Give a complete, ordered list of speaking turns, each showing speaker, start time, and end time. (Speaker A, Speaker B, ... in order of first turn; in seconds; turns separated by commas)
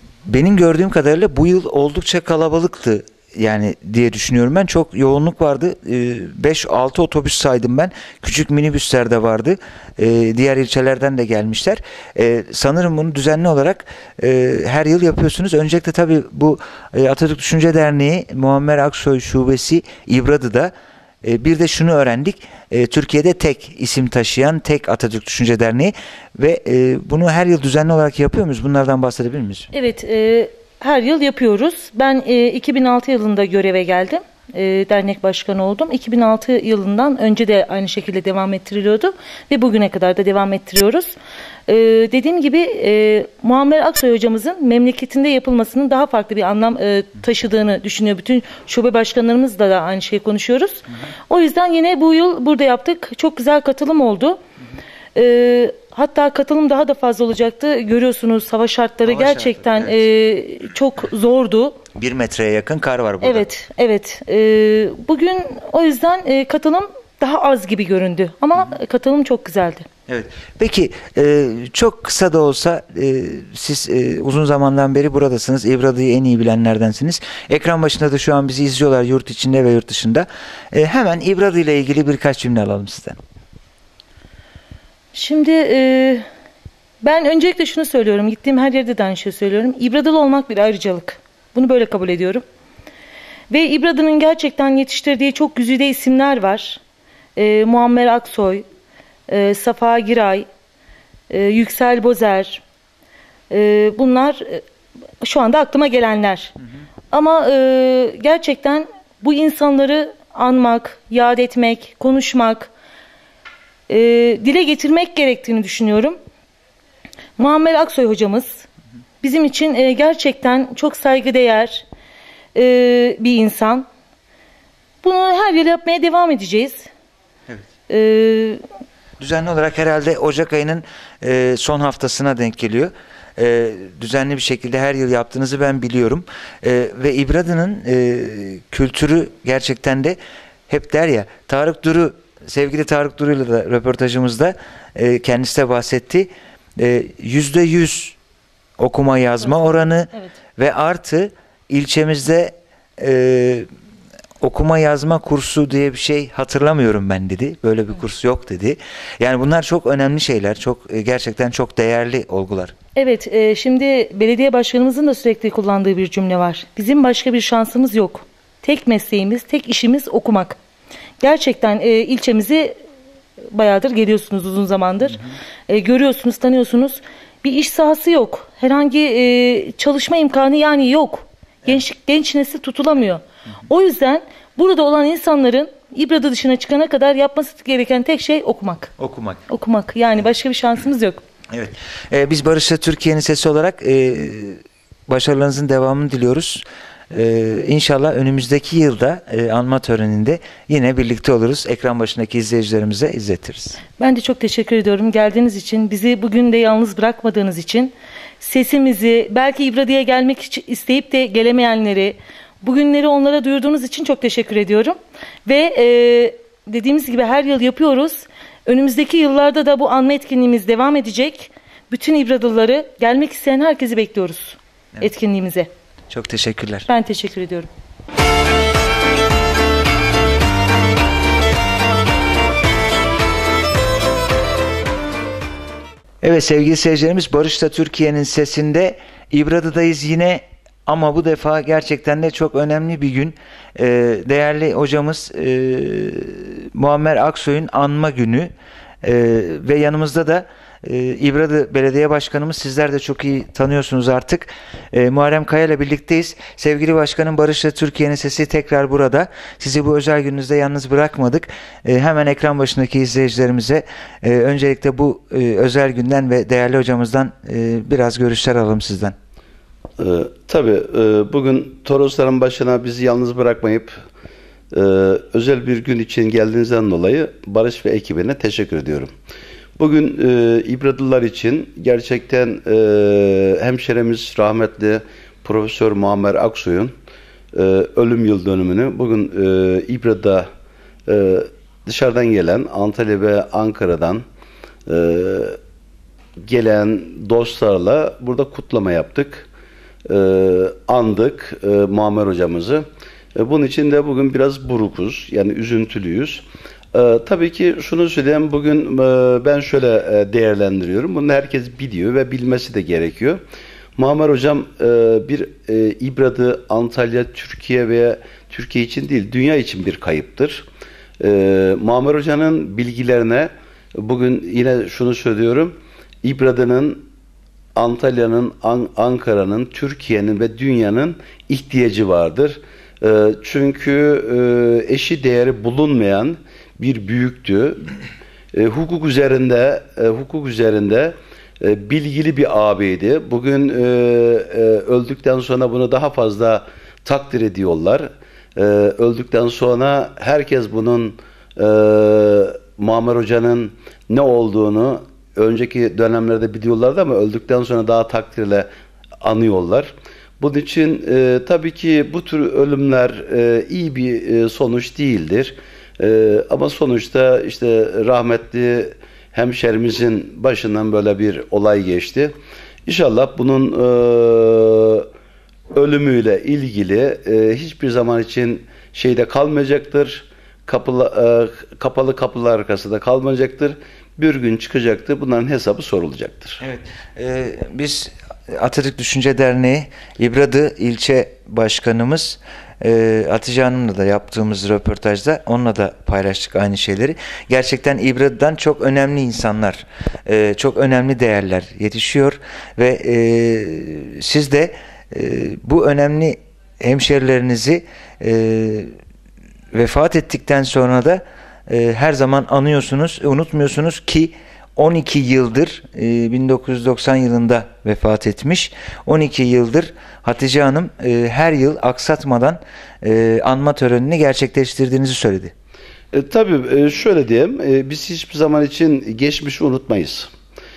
Speaker A: 0.3-29.7, Speaker B: 29.7-41.1, Speaker B: 41.7-54.4, Speaker B: 55.1-61.8, Speaker A: 59.0-60.0, Speaker A: 61.9-63.5, Speaker B: 63.2-69.9, Speaker A: 70.1-83.2, Speaker B: 85.1-86.2, Speaker B: 87.0-92.4, Speaker B: 93.5-96.8, Speaker B: 97.3-98.6, Speaker B: 99.3-100.5, Speaker B: 101.3-102.6, Speaker B: 103.5-104.6, Speaker B: 105.2-106.5, Speaker B: 107.1-112.7, Speaker B: 113.9-116.2, Speaker B: 117.4-118.6, Speaker B: 119.2-121.8, Speaker B: 122.5-123.8, Speaker B: 125.0-126.9, Speaker B: 127.9-128.6, Speaker A: 129.2-140.2, Speaker A: 140.7-148.2, Speaker A: 148.8-153.7, Speaker A: 154.4-162.7, Speaker B: 162.9-170.6, Speaker B: 171.2-172.8, Speaker B: 173.5-188.9, Speaker A: 189.0-189.4, Speaker B: 189.5-191.2, Speaker A: 191.5-203.8, Speaker B: 204.0-225.7, Speaker A: 226.1-226.9, Speaker B: 226.9-227.7, Speaker A: 236.2-269.1, Speaker C: 270.0-274.0, Speaker C: 274.7-279.1, Speaker C: 279.8-286.9, Speaker C: 287.5-290.5, Speaker C: 291.1-294.2, Speaker C: 294.9-295.6, Speaker C: 296.4-299.5, Speaker C: 300.0-313.4, Speaker C: 314.0-320.7, Speaker C: 321.2-327.0, Speaker C: 327.7-337.8, Speaker C: 338.5-358.7, Speaker C: 359.2-375.1, Speaker C: 375.7-386.6, Speaker A: 386.6-408.9, Speaker A: 409.7-425.5, Speaker C: 426.1-430.3